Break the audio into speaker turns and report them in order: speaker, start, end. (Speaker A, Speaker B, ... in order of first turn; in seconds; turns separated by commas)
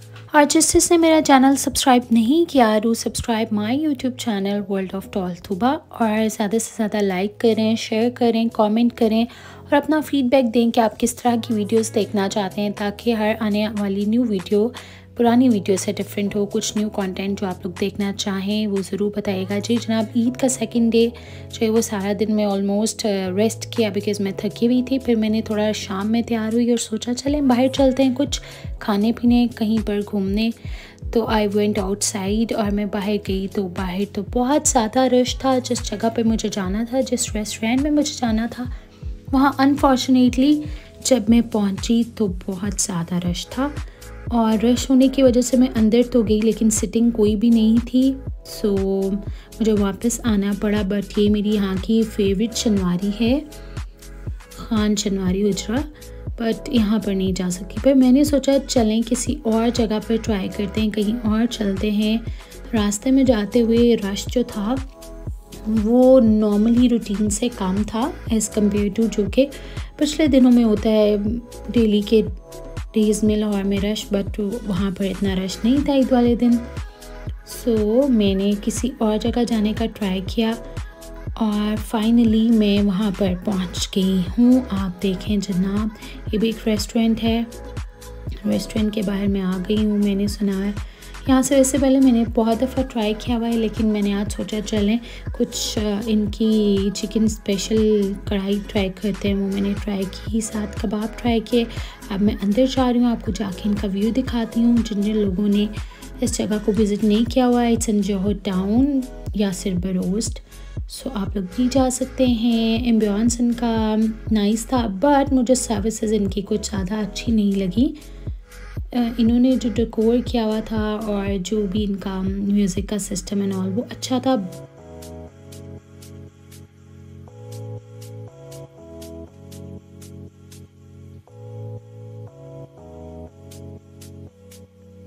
Speaker A: 0.3-30.6, Speaker A: 31.1-38.7, Speaker A: 39.3-53.5, Speaker A: 54.5-64.9, Speaker A: 65.7-72.4, Speaker A: 72.9-76.7, Speaker A: 77.5-80.6, Speaker A: 81.4-87.5, Speaker A: 88.4-118.0, Speaker A: 118.9-124.5